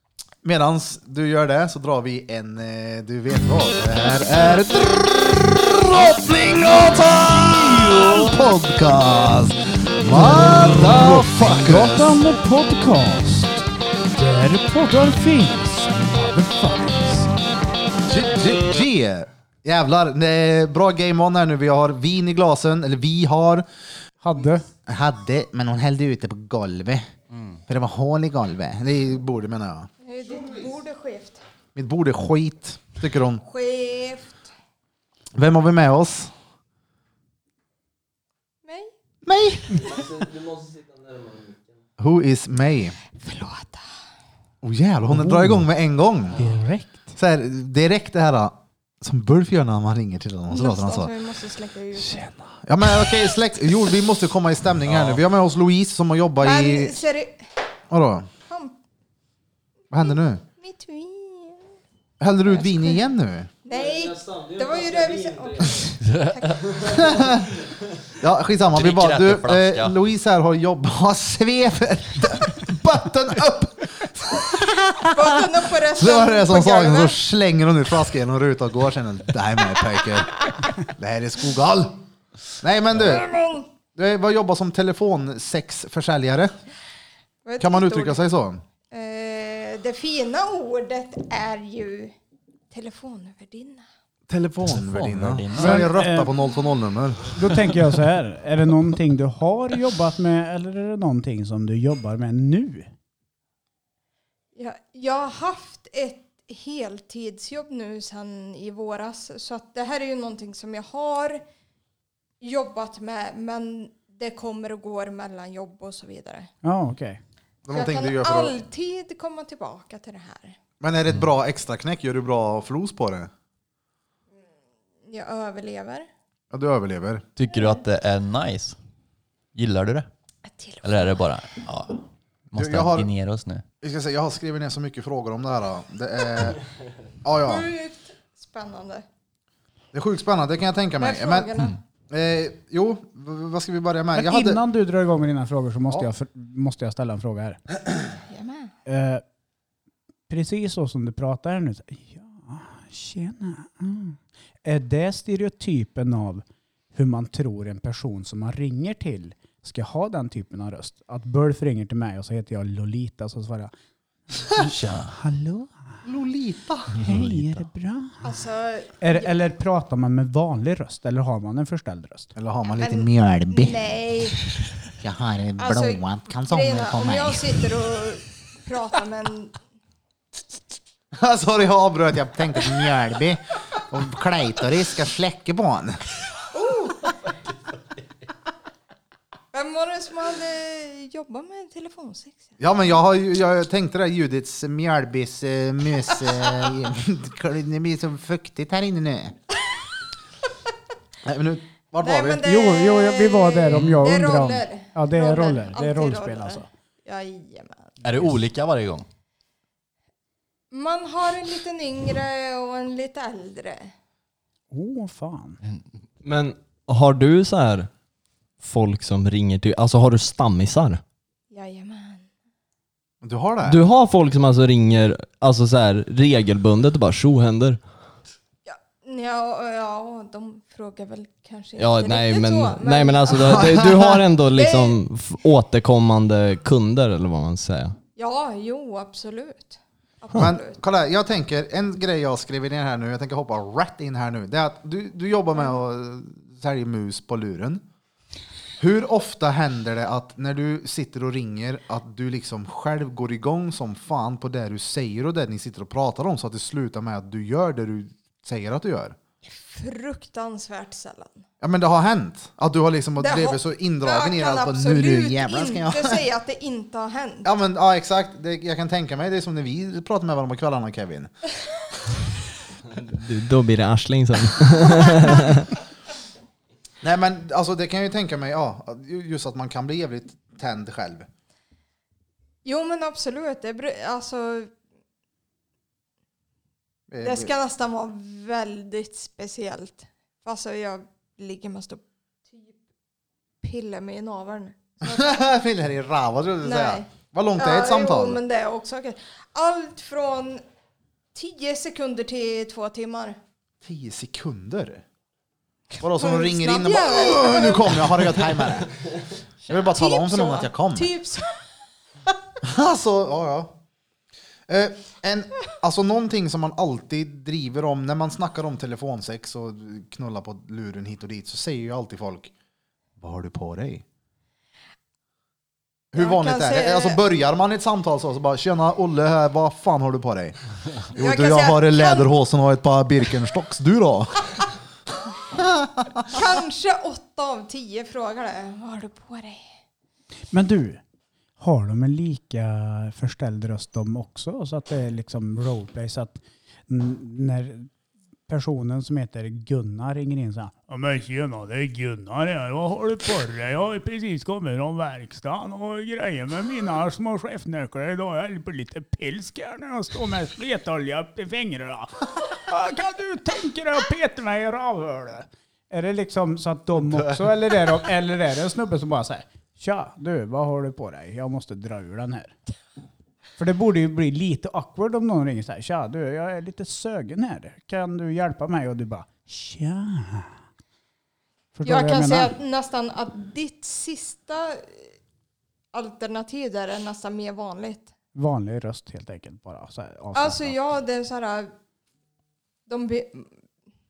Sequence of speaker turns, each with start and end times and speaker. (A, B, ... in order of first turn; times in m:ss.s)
0:00.4-0:12.2 A
0:10.1-0:17.3 B
0:18.0-0:23.7 A
0:24.2-0:24.7 B
0:24.8-0:27.1 A
0:27.3-0:27.6 C
0:27.7-0:29.9 A
0:30.0-0:31.4 D
0:31.7-0:33.4 A
0:33.4-0:34.4 D
0:35.3-0:36.3 A
0:38.6-0:38.9 D
0:39.2-0:39.9 A
0:39.8-0:41.6 E
0:42.0-0:43.0 A
0:43.2-0:43.8 D
0:44.6-0:46.4 A
0:45.1-0:45.6 B
0:46.4-0:47.1 B
0:47.2-0:51.1 A
0:50.5-0:52.2 D
0:51.9-0:57.0 A
0:54.9-0:55.2 C
0:56.4-0:57.5 D
0:57.9-0:58.3 A
0:58.5-0:58.8 D
0:59.9-1:00.4 A
0:59.9-1:01.7 D
1:02.2-1:03.5 A
1:02.4-1:03.0 D
1:03.6-1:06.8 D
1:03.7-1:05.6 E
1:06.0-1:06.7 C
1:06.8-1:07.6 A
1:08.2-1:22.0 A
1:08.7-1:09.9 C
1:15.1-1:17.2 D
1:22.6-1:23.3 A
1:23.0-1:23.7 D
1:23.9-1:26.5 A
1:27.4-1:28.2 D
1:27.6-1:28.6 A
1:28.9-1:32.1 D
1:32.7-1:33.8 D
1:34.3-1:37.3 A
1:34.7-1:35.9 C
1:35.5-1:36.3 B
1:37.3-1:42.9 B
1:44.5-1:51.4 D
1:52.4-1:56.5 D
1:56.6-1:57.2 B
1:57.6-1:58.6 A
1:57.7-2:00.6 D
2:00.8-2:03.3 A
2:05.0-2:06.1 D
2:06.5-2:07.2 A
2:07.4-2:08.8 C
2:07.5-2:07.8 D
2:09.5-2:10.1 C
2:10.4-2:11.3 D
2:10.8-2:13.6 C
2:12.6-2:13.1 A
2:13.8-2:16.6 A
2:17.2-2:17.7 A
2:17.4-2:19.0 D
2:19.9-2:21.5 A
2:21.0-2:21.8 D
2:22.1-2:24.6 A
2:24.1-2:27.6 B
2:28.3-2:28.7 D
2:28.9-2:29.2 B
2:30.3-2:43.7 B
2:44.6-2:45.1 C
2:45.0-2:45.7 B
2:46.0-2:47.0 A
2:47.0-2:47.6 C
2:47.0-2:48.2 B
2:48.2-2:49.4 D
2:49.0-2:52.3 B
2:52.4-2:53.8 A
2:52.7-2:54.4 D
2:55.0-2:57.4 A
2:55.6-2:59.6 D
3:01.1-3:06.0 A
3:06.5-3:07.2 D
3:09.5-3:12.5 D
3:12.6-3:19.4 A
3:21.2-3:22.4 A
3:22.0-3:28.0 D
3:22.4-3:26.7 B
3:23.7-3:24.0 C
3:28.0-3:29.0 C
3:30.7-3:33.9 D
3:34.7-3:35.6 B
3:36.2-3:37.9 E
3:38.6-3:41.0 E
3:41.5-3:42.3 D
3:43.2-3:43.8 A
3:43.6-3:47.8 E
3:48.6-3:53.8 D
3:51.8-3:58.0 E
3:53.3-3:54.2 A
3:54.5-3:55.0 D
3:58.2-4:00.8 D
4:00.3-4:07.8 A
4:08.8-4:19.2 A
4:19.5-4:21.4 D
4:21.6-4:26.2 A
4:23.2-4:27.5 D
4:27.4-4:31.3 A
4:32.9-4:35.7 E
4:37.0-4:41.3 A
4:42.6-4:44.7 D
4:47.1-4:47.5 A
4:47.2-4:52.8 D
4:53.6-4:55.4 D
4:55.0-4:58.4 A
4:56.6-5:00.6 D
5:01.3-5:03.4 D
5:03.8-5:05.0 A
5:05.9-5:08.1 D
5:06.0-5:08.9 A
5:09.7-5:11.1 A
5:09.9-5:11.6 D
5:12.6-5:13.7 A
5:14.7-5:22.5 A
5:23.2-5:24.0 A
5:26.1-5:30.6 A
5:26.1-5:27.2 D
5:31.1-5:34.4 A
5:31.2-5:32.3 D
5:35.5-5:36.4 A
5:36.2-5:39.6 D
5:40.5-5:41.0 B
5:41.6-5:47.9 B
5:48.5-6:12.5 B
6:13.6-6:20.5 B
6:21.7-6:22.5 B
6:21.8-6:25.1 D
6:25.9-6:28.1 D
6:28.3-6:30.8 B
6:30.3-6:31.7 D
6:32.9-6:33.5 D